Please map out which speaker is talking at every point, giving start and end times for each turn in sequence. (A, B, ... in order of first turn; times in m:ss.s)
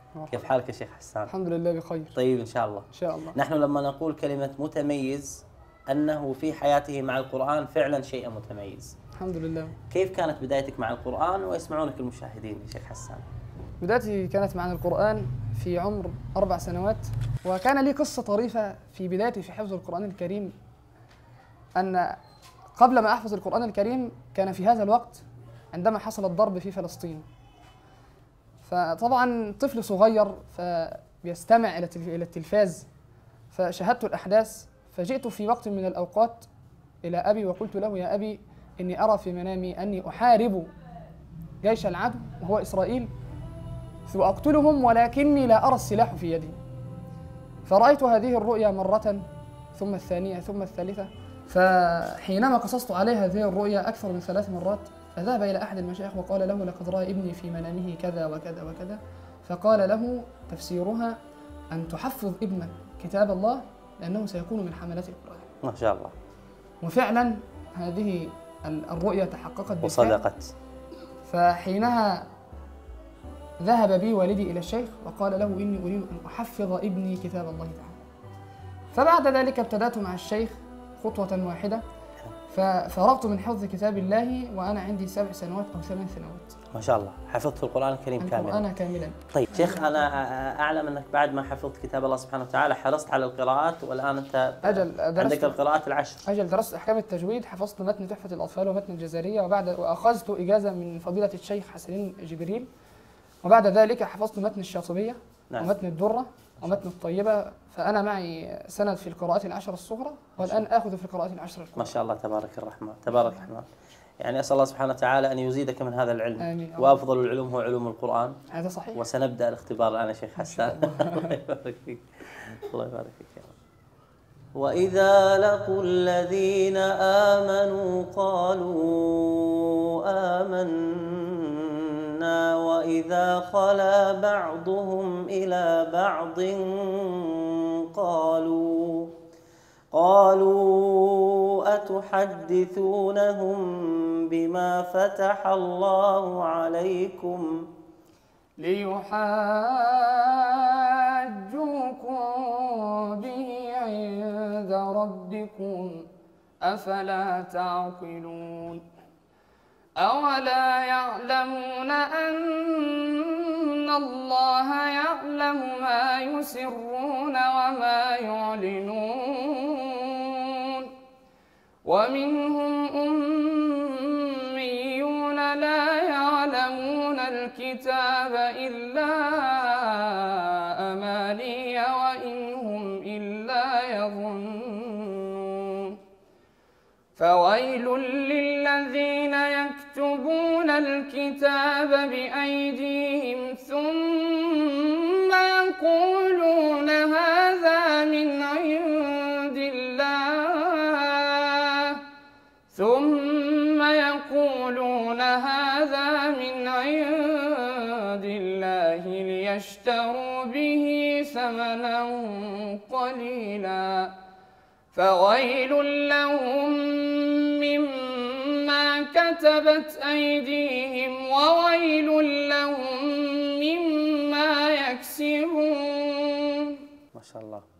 0:00.2-0:00.5 A
0:00.3-0:01.3 B
0:01.3-0:02.1 A
0:02.2-0:08.9 B
0:02.9-0:03.4 A
0:09.2-0:09.8 A
0:09.9-0:13.2 B
0:13.8-0:20.5 A
0:21.7-0:22.2 A
0:22.7-0:27.2 A
0:28.6-0:32.8 A
0:33.5-0:36.5 A
0:37.0-0:40.7 A
0:41.6-0:43.1 A
0:44.1-0:46.6 A
0:47.6-0:49.2 A
0:49.7-1:01.2 A
1:01.7-1:05.5 A
1:05.6-1:06.1 B
1:06.8-1:10.2 A
1:09.8-1:10.5 B
1:11.3-1:12.3 A
1:13.6-1:17.9 A
1:18.9-1:21.8 A
1:22.5-1:26.6 A
1:26.7-1:28.6 B
1:28.2-1:30.1 A
1:29.3-1:36.2 B
1:34.6-1:35.6 A
1:36.2-1:42.7 A
1:43.4-1:51.9 A
1:51.8-1:53.6 B
1:54.2-1:58.4 B
1:56.4-1:57.0 A
1:58.5-1:59.0 A
1:58.9-2:03.5 B
2:00.4-2:01.4 A
2:04.5-2:19.1 B
2:19.9-2:27.5 B
2:28.6-2:36.0 A
2:36.6-2:38.8 A
2:40.0-2:50.9 A
2:51.8-3:06.0 A
3:07.2-3:22.0 A
3:22.7-3:34.1 A
3:34.9-3:46.8 A
3:47.1-3:47.6 B